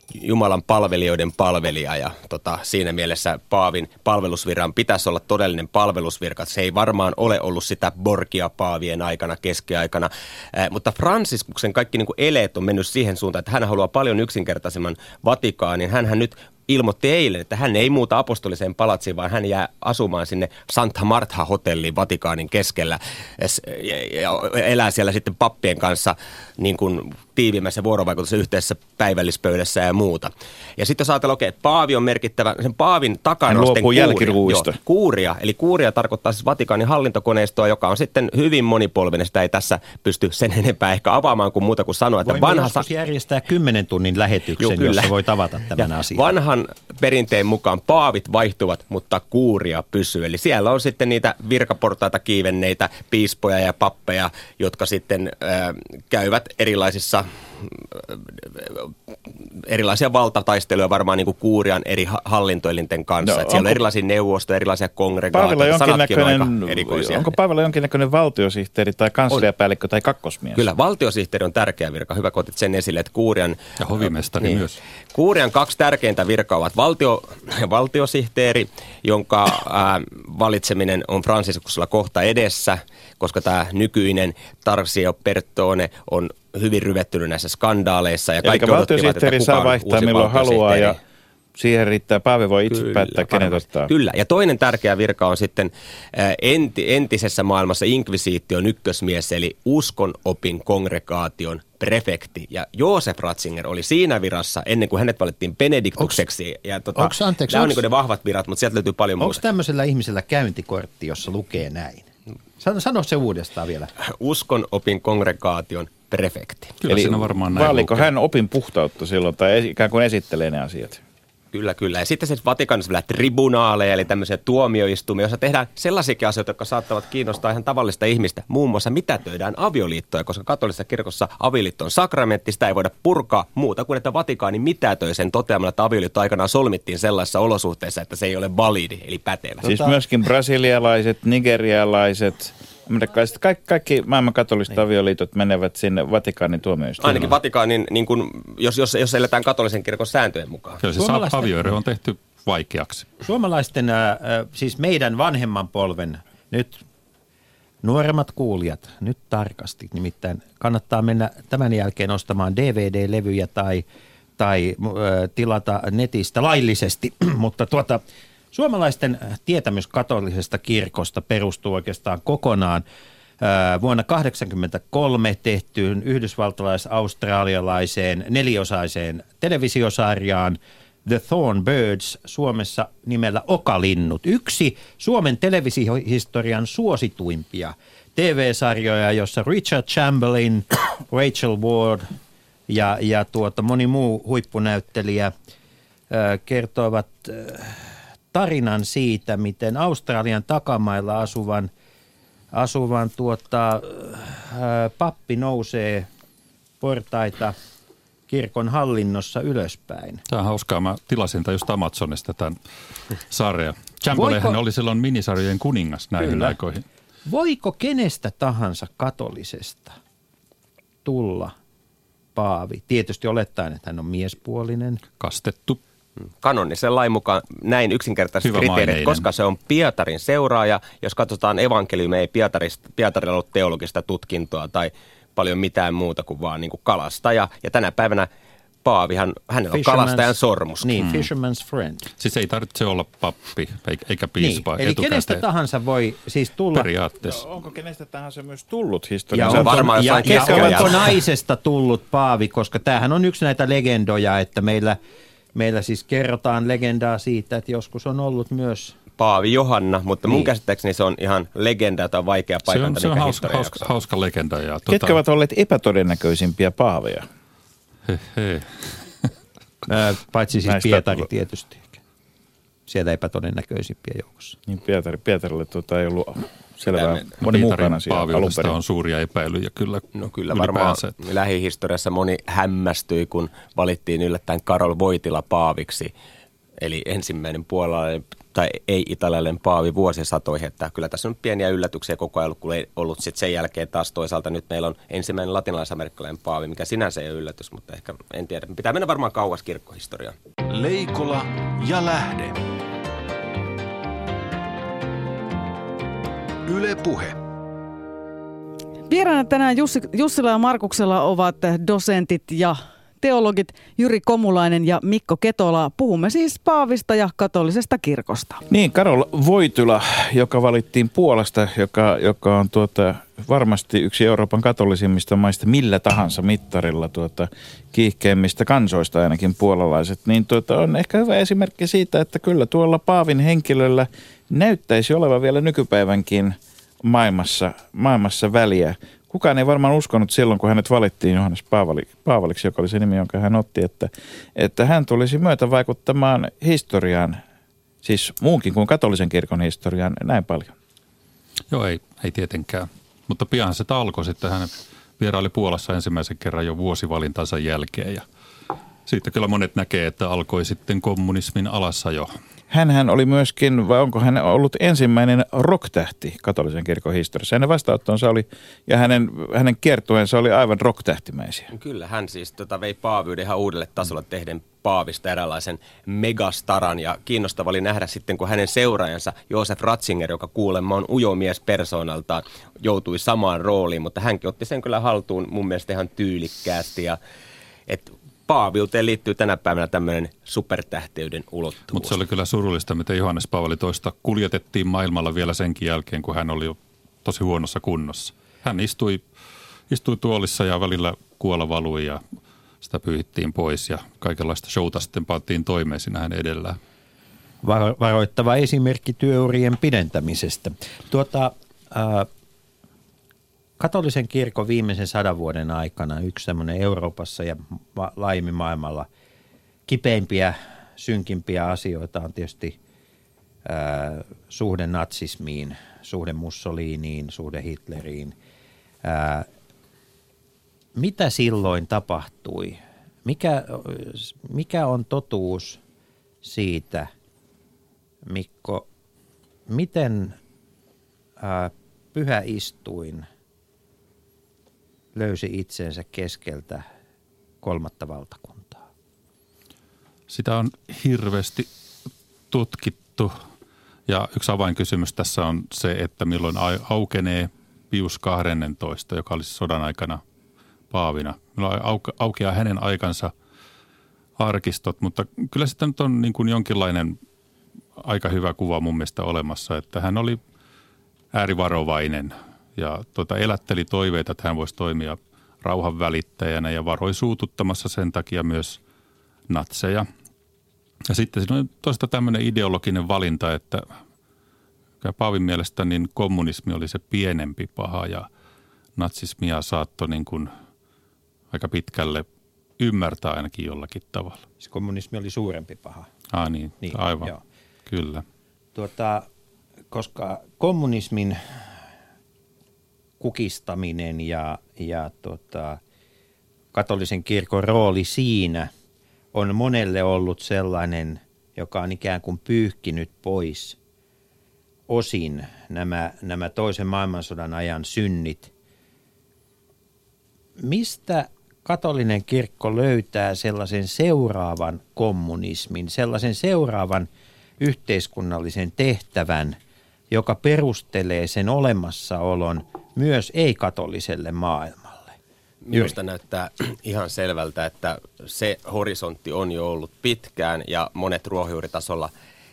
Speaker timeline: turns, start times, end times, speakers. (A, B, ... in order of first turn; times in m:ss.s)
0:00.2-0:42.9 A
0:33.5-0:34.8 B
0:42.2-0:46.3 C
0:44.6-0:45.1 A
0:46.1-0:58.9 A
0:59.6-1:07.3 A
1:03.2-1:03.8 B
1:05.3-1:10.7 B
1:10.6-1:13.6 A
1:13.8-1:14.8 D
1:14.4-1:31.0 A
1:28.4-1:31.0 B
1:31.6-1:33.9 B
1:32.7-1:49.4 A
1:47.0-1:47.8 C
1:49.2-1:52.1 C
1:52.6-1:53.9 C
1:54.1-1:56.8 A
1:56.8-1:58.1 D
1:56.9-2:01.0 B
2:01.5-2:19.7 A
2:19.6-2:20.0 C
2:19.6-2:27.3 B
2:27.0-2:30.8 A
2:30.8-2:33.1 D
2:31.0-2:31.8 C
2:33.2-2:36.8 C
2:37.8-2:43.8 C
2:44.4-2:52.8 C
2:53.4-3:12.1 C
3:12.7-3:15.3 C
3:16.1-3:21.7 C
3:22.5-3:26.1 C
3:26.8-3:27.6 C
3:28.3-3:30.2 C
3:30.3-3:32.6 D
3:33.3-3:36.8 D
3:34.1-3:34.6 C
3:36.2-3:36.6 C
3:37.3-3:40.0 C
3:41.0-3:41.5 C
3:42.4-3:45.0 C
3:45.2-3:45.8 D
3:46.4-3:58.3 A
3:48.4-3:49.3 D
3:58.8-4:01.0 A
3:59.7-4:02.1 C
4:01.0-4:01.3 D
4:02.2-4:05.4 D
4:04.4-4:06.9 C
4:06.7-4:07.4 D
4:07.2-4:11.1 B
4:09.3-4:15.0 C
4:09.4-4:11.1 A
4:15.6-4:19.0 C
4:19.2-4:23.9 A
4:20.2-4:20.5 C
4:22.7-4:25.2 D
4:24.9-4:27.3 B
4:28.1-4:29.1 D
4:29.9-4:32.0 C
4:30.6-4:31.3 B
4:32.9-4:34.6 C
4:34.7-4:38.8 B
4:36.9-4:37.2 A
4:37.4-4:41.2 D
4:40.2-4:46.1 A
4:46.8-5:00.4 A
5:00.7-5:02.6 E
5:06.7-5:07.4 E
5:09.1-5:18.6 F
5:18.7-5:47.4 B
5:48.0-5:50.7 B
5:51.7-5:58.2 D
5:59.1-6:02.3 D
6:02.7-6:11.7 B
6:11.7-6:27.2 A
6:27.9-6:32.2 A
6:31.9-6:39.2 D
6:39.9-6:42.2 D
6:42.8-6:46.8 D
6:47.6-6:52.3 C
6:53.8-6:59.1 C
6:59.9-7:02.8 C
7:03.6-7:08.4 C
7:09.0-7:09.5 C
7:11.0-7:15.8 C
7:16.4-7:17.1 C
7:18.3-7:18.9 C
7:19.7-7:20.4 C
7:21.4-7:23.3 C
7:25.2-7:26.8 C
7:27.6-7:28.8 C
7:30.3-7:31.7 D
7:32.5-7:33.4 D
7:34.1-7:40.2 D
7:40.9-7:43.3 D
7:44.4-7:47.2 D
7:48.0-7:50.4 D
7:51.3-7:58.8 D
7:59.5-8:00.1 D
8:01.1-8:03.9 D
8:05.0-8:08.3 D
8:09.0-8:10.5 D
8:11.5-8:12.3 D
8:12.8-8:14.4 D
8:14.6-8:16.1 C
8:16.3-8:17.3 D
8:16.8-8:17.4 C
8:17.9-8:18.2 D
8:18.8-8:19.3 C
8:19.9-8:21.4 C
8:23.2-8:25.8 C
8:26.7-8:28.7 C
8:29.3-8:33.8 C
8:34.9-8:38.5 C
8:40.6-8:47.1 C
8:47.6-8:49.6 C
8:50.1-8:55.2 C
8:55.6-9:02.1 A